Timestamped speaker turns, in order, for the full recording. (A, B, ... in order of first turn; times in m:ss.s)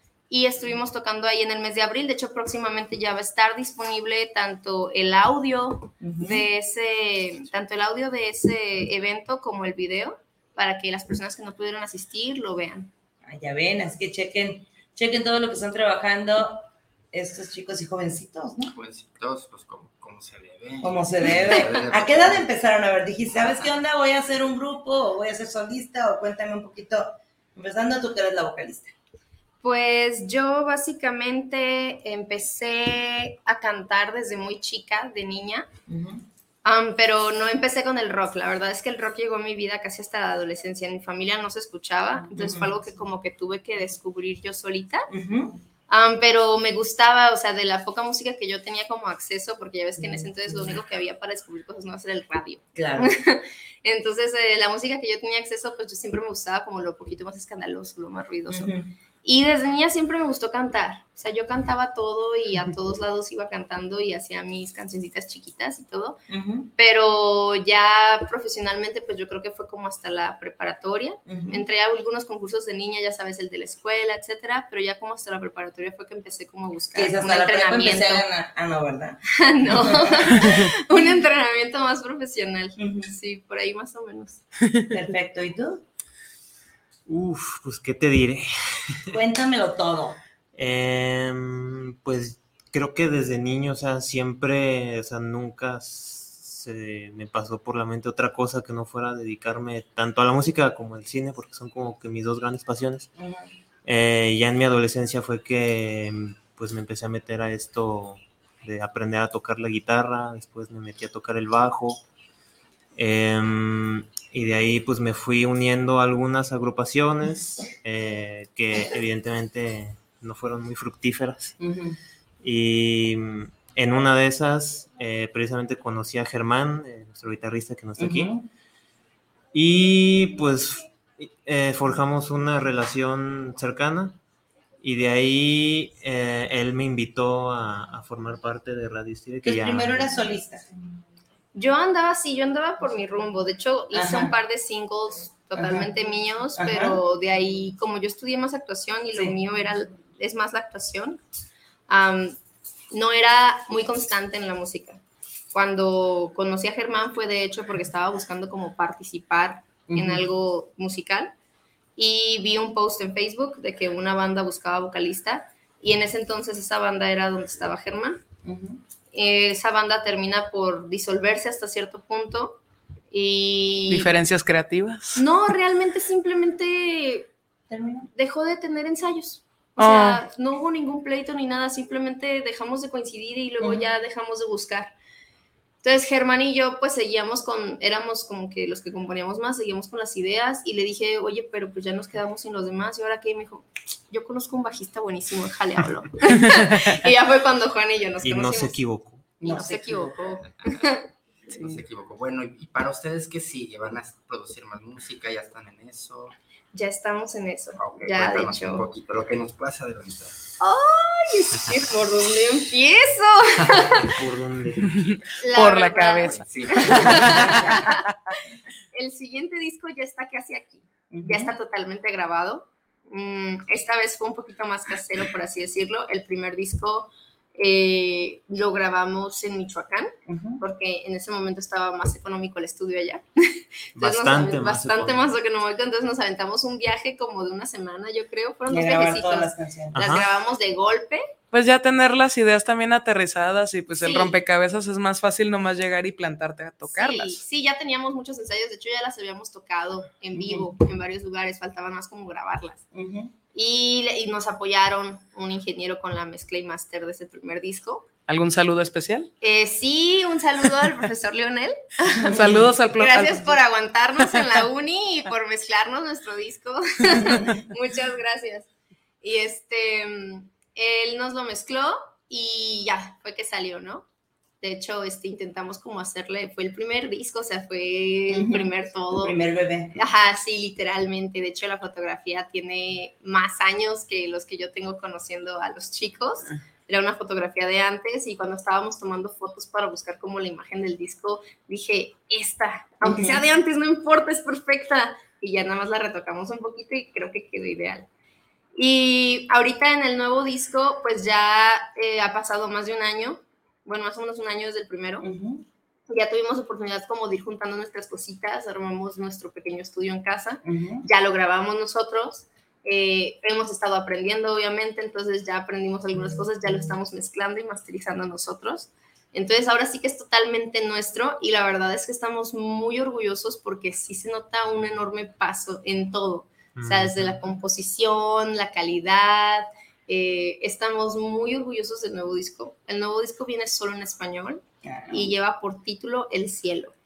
0:00.3-0:12.9 A
0:06.0-0:06.5 B
0:13.2-0:18.7 B
0:18.7-0:22.5 C
0:20.8-0:28.9 B
0:21.5-0:21.8 A
0:23.4-0:23.7 C
0:29.6-0:35.7 A
0:35.9-0:36.2 B
0:36.6-0:45.1 A
0:42.2-0:42.7 B
0:45.1-0:45.6 B
0:45.9-0:58.7 A
0:50.0-0:50.8 B
0:52.8-0:53.2 B
0:58.5-0:58.9 B
0:59.2-1:06.2 A
1:06.3-1:06.7 B
1:06.8-1:18.2 A
1:11.3-1:11.6 B
1:17.0-1:21.0 B
1:19.4-1:24.4 A
1:22.8-1:23.1 B
1:24.9-1:25.8 B
1:27.1-1:29.2 D
1:29.1-1:30.2 B
1:30.6-1:43.1 D
1:43.2-1:43.5 B
1:43.8-1:52.0 D
1:53.0-2:01.6 D
2:01.6-2:02.0 B
2:02.4-2:08.3 D
2:08.0-2:08.5 B
2:09.5-2:14.2 D
2:14.8-2:20.2 D
2:19.4-2:20.6 B
2:21.5-2:31.2 A
2:23.9-2:24.4 B
2:25.6-2:25.9 B
2:26.6-2:27.0 B
2:31.9-2:32.4 A
2:32.9-2:35.0 A
2:35.5-2:41.3 A
2:39.9-2:40.3 B
2:42.0-2:48.2 A
2:48.4-2:48.8 B
2:49.1-2:52.6 A
2:53.1-2:54.1 A
2:53.9-2:55.2 E
2:55.2-2:57.3 A
2:57.7-2:58.1 B
2:58.2-3:04.9 A
2:59.8-3:00.2 E
3:03.6-3:03.9 B
3:05.8-3:18.8 A
3:16.3-3:17.0 E
3:18.2-3:19.3 D
3:19.4-3:20.3 B
3:19.4-3:21.0 A
3:21.5-3:26.4 C
3:21.6-3:21.8 E
3:26.7-3:28.9 A
3:27.8-3:30.4 C
3:30.6-3:34.1 A
3:33.6-3:33.9 C
3:33.9-3:35.2 D
3:34.9-3:38.1 E
3:35.4-3:38.0 A
3:36.3-3:37.7 C
3:37.3-3:37.8 B
3:38.9-4:01.2 A
3:41.1-3:41.5 B
3:50.3-3:50.6 B
3:54.0-3:55.4 D
3:58.7-4:00.0 B
3:59.9-4:00.3 D
4:01.5-4:07.4 E
4:04.0-4:04.4 A
4:06.8-4:12.8 A
4:10.4-4:10.7 B
4:12.9-4:13.3 B
4:13.5-4:18.1 A
4:18.3-4:19.3 E
4:19.4-4:28.7 A
4:22.3-4:22.7 B
4:22.3-4:23.6 E
4:27.1-4:27.5 B
4:29.2-4:34.1 A
4:34.6-4:39.4 A
4:38.3-4:38.7 B
4:39.2-4:39.9 B
4:40.0-4:58.1 A
4:53.0-4:53.4 B
4:58.8-5:05.3 A
5:05.2-5:05.6 B
5:06.1-5:37.0 A
5:10.6-5:11.1 B
5:26.8-5:27.4 D
5:34.8-5:35.3 B